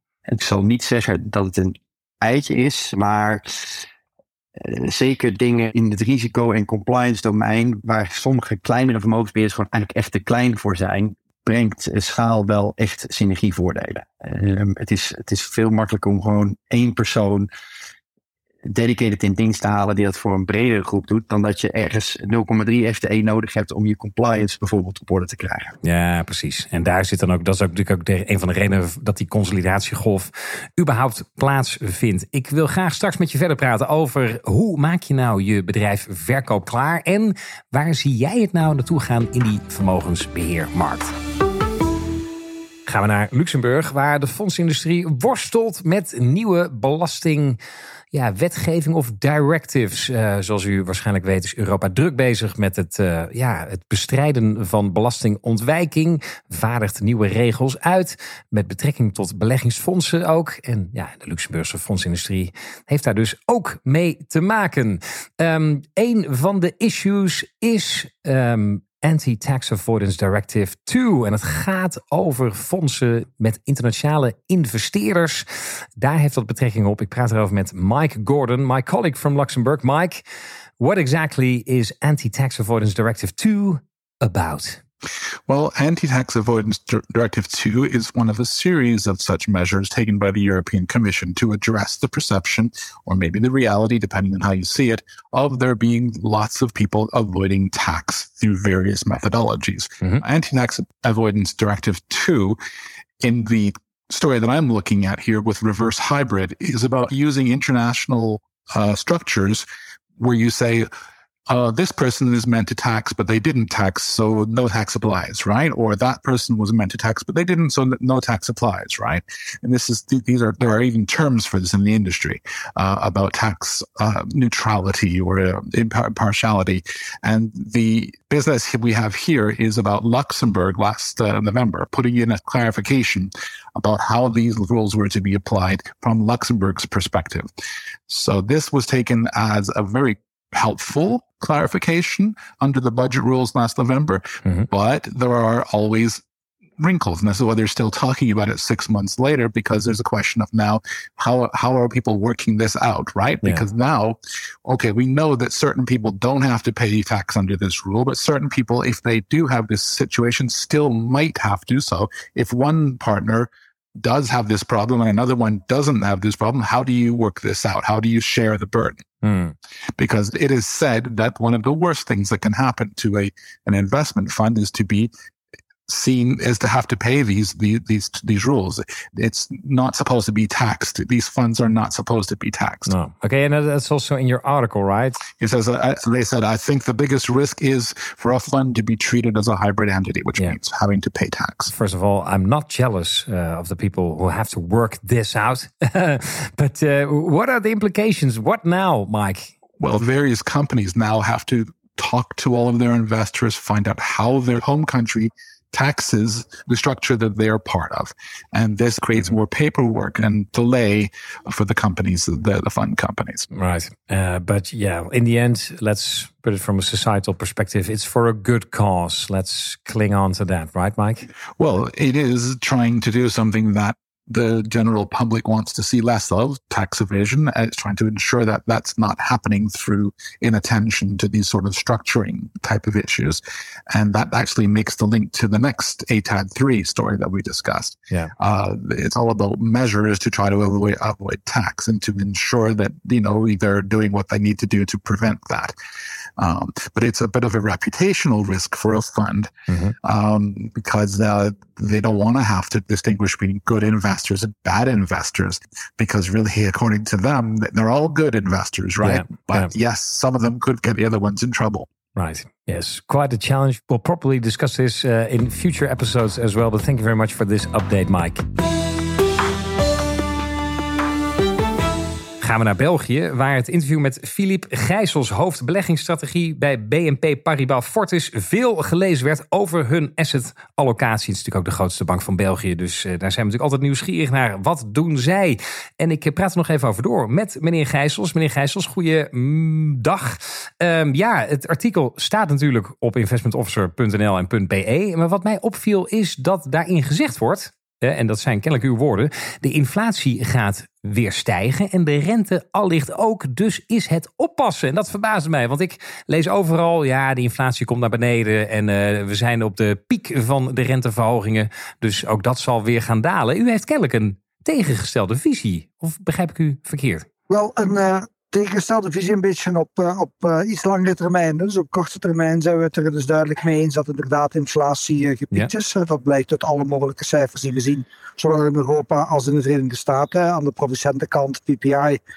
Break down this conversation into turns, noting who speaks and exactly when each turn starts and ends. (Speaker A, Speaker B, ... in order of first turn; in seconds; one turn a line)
Speaker A: 0.3-3.8
Speaker A: 4.6-17.5
Speaker A: 18.6-25.8
Speaker B: 25.8-41.1
Speaker B: 42.9-47.6
Speaker B: 48.1-75.5
Speaker B: 76.0-80.2
Speaker B: 80.8-84.8
Speaker C: 85.5-102.6
Speaker C: 103.2-109.7
Speaker C: 110.2-110.9
Speaker C: 111.5-137.5
Speaker C: 138.1-146.2
Speaker C: 146.8-169.1
Speaker B: 169.2-169.5
Speaker C: 170.0-175.1
Speaker C: 175.9-182.9
Speaker B: 182.9-185.2
Speaker C: 185.3-191.7
Speaker B: 191.7-199.5
Speaker C: 199.8-213.5
Speaker B: 213.5-221.2
Speaker C: 221.6-245.7
Speaker C: 246.4-249.5
Speaker B: 249.7-249.9
Speaker C: 250.0-261.9
Speaker B: 259.0-259.7
Speaker B: 262.2-268.4
Speaker B: 272.4-317.3
Speaker D: 317.5-332.2